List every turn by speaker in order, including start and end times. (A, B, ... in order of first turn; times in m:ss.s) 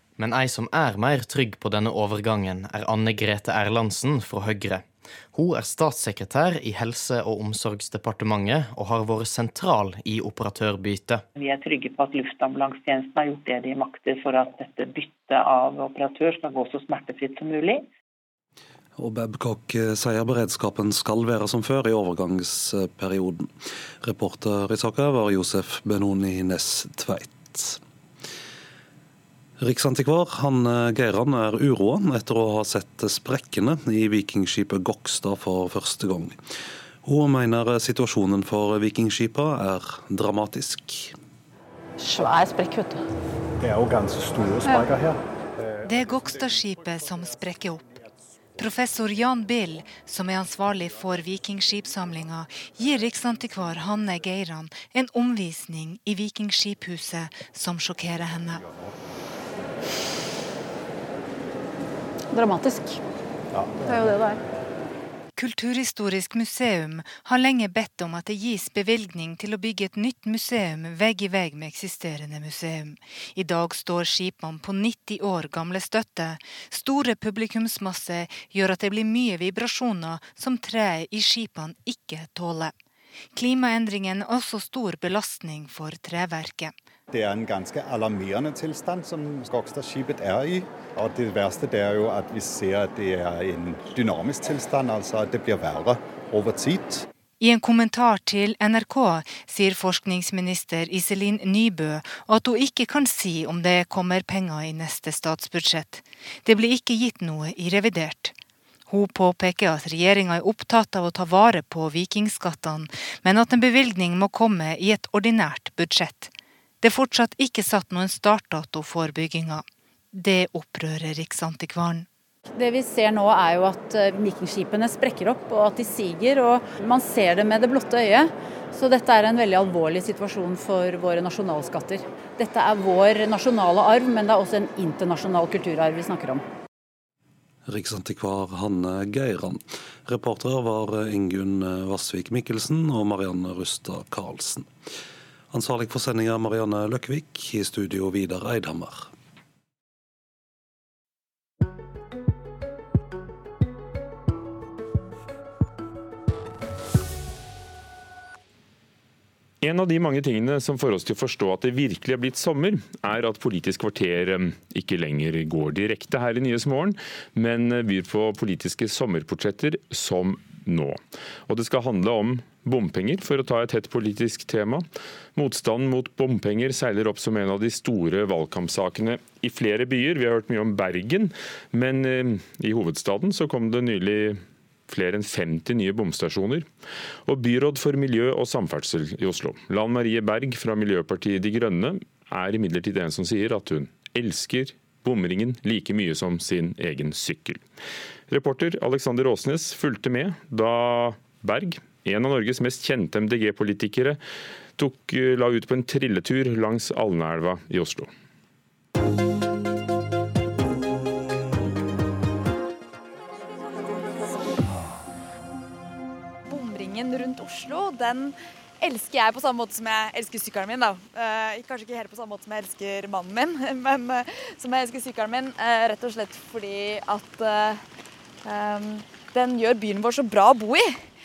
0:00.2-0:11.2 A
0:11.4-0:17.8 B
0:19.0-0:27.8 C
0:29.6-0:36.4 C
0:37.0-0:41.1 C
0:42.0-0:43.0 D
0:43.6-0:45.2 E
0:45.8-0:47.8 F
0:48.6-0:58.6 F
1:02.3-1:03.0 D
1:03.8-1:04.4 D
1:05.4-1:22.7 F
1:23.3-1:26.7 F
1:27.1-1:37.0 E
1:37.4-1:48.3 F
1:48.9-2:02.1 F
2:02.5-2:16.4 D
2:17.7-2:24.7 C
2:25.5-2:29.1 C
2:39.6-3:06.7 G
3:07.2-3:17.6 G
3:18.3-3:24.2 G
3:24.8-3:28.1 G
3:37.5-3:38.2 H
3:39.0-3:43.9 H
3:44.6-3:47.7 H
3:48.7-3:50.7 H